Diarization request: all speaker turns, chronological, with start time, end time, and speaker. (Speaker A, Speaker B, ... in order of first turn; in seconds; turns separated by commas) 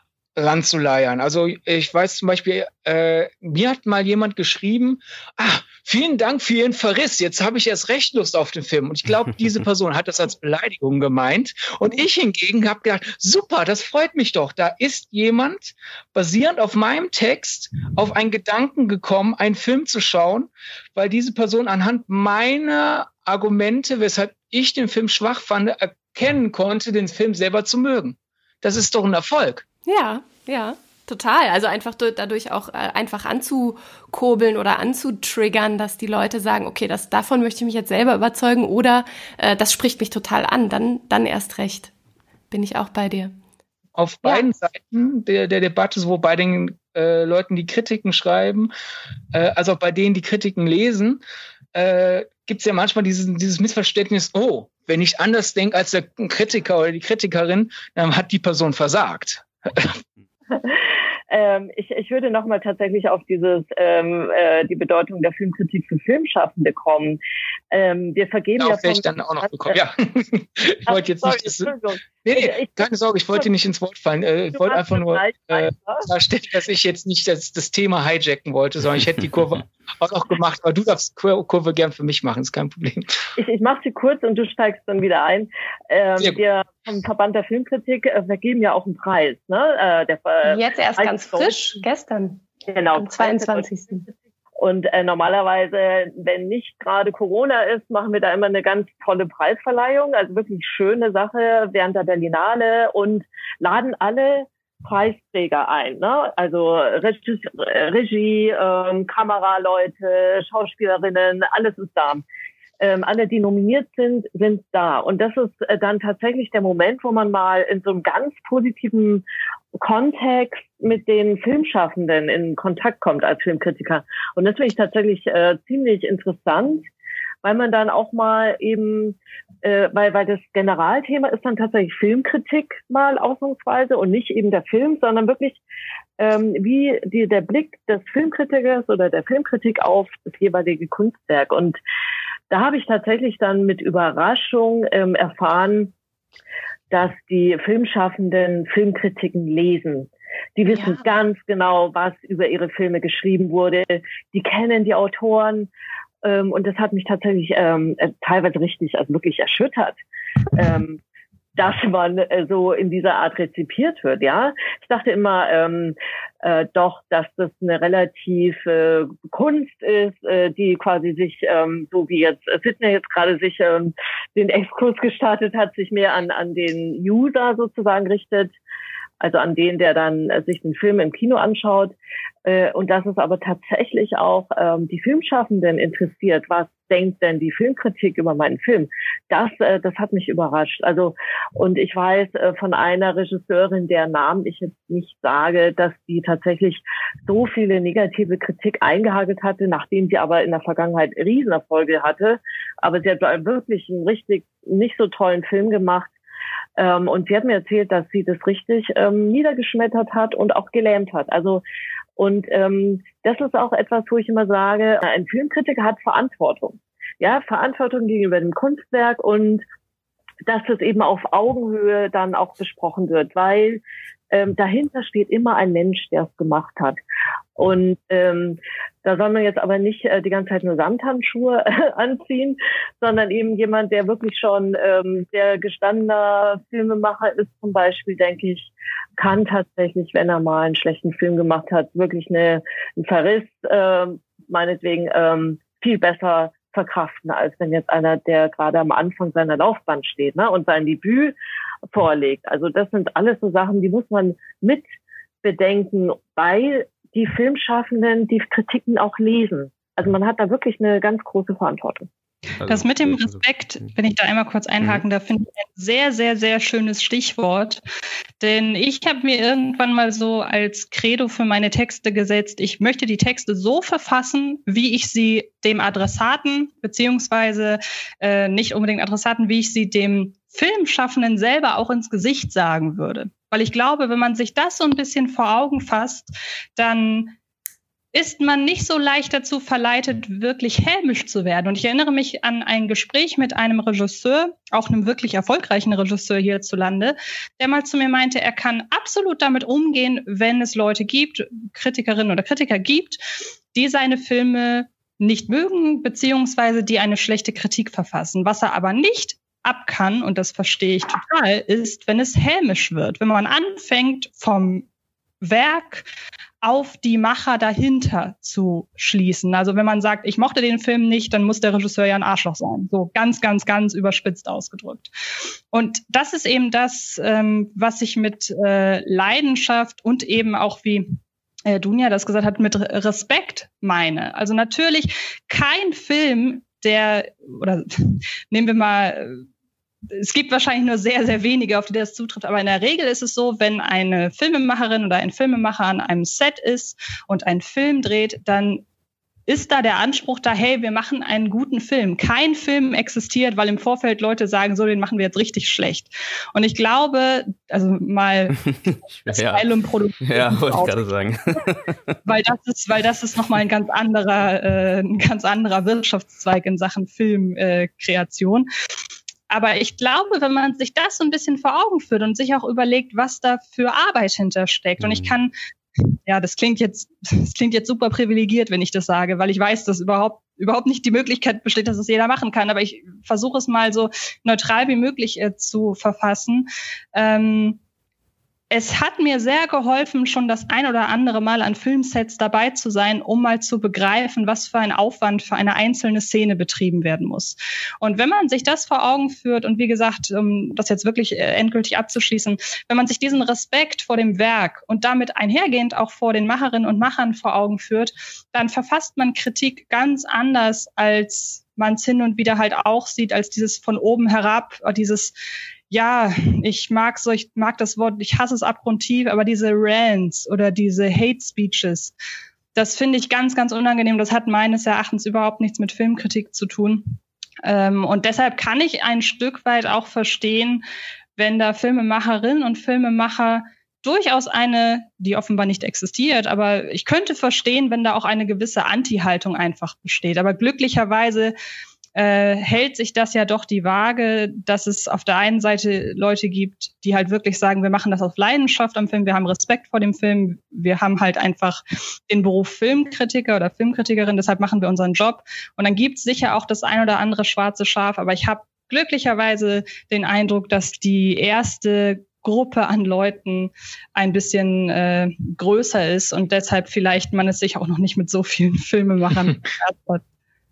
Speaker A: 0.4-29.6, Speaker B: 29.9-41.9, Speaker B: 42.5-43.3, Speaker A: 44.0-48.7, Speaker A: 49.3-51.2, Speaker A: 51.7-60.0, Speaker C: 60.5-67.2, Speaker C: 67.7-69.7, Speaker A: 68.6-71.7, Speaker C: 70.9-72.8, Speaker A: 72.2-83.1, Speaker C: 74.5-76.1, Speaker C: 83.4-91.8, Speaker B: 90.5-92.4, Speaker C: 92.7-93.7, Speaker B: 92.9-94.0, Speaker C: 94.6-112.2, Speaker C: 112.8-119.2, Speaker C: 119.8-126.9, Speaker C: 127.4-135.6, Speaker C: 136.2-141.8, Speaker C: 142.5-145.9, Speaker C: 146.9-155.7, Speaker B: 150.7-151.0, Speaker C: 156.2-160.0, Speaker C: 160.6-161.0, Speaker C: 161.6-178.5, Speaker C: 179.2-181.9, Speaker C: 182.4-206.1, Speaker C: 206.8-211.6, Speaker C: 212.2-219.6, Speaker C: 220.4-227.0, Speaker C: 227.6-251.3, Speaker C: 251.9-254.9, Speaker C: 255.4-262.1, Speaker D: 262.6-263.4, Speaker E: 262.6-267.8, Speaker E: 268.4-287.4, Speaker E: 288.1-303.2, Speaker E: 303.7-314.9, Speaker E: 315.4-316.1, Speaker E: 316.6-325.1, Speaker E: 325.7-331.2, Speaker E: 331.7-339.4, Speaker E: 340.1-348.8, Speaker E: 349.5-358.7, Speaker D: 358.6-359.7, Speaker E: 359.3-361.0, Speaker D: 360.2-362.2, Speaker E: 362.3-368.7, Speaker E: 369.5-387.8, Speaker D: 375.0-375.3, Speaker E: 388.7-415.4, Speaker E: 415.9-422.1, Speaker E: 422.8-430.8, Speaker E: 431.4-441.5, Speaker E: 442.1-470.2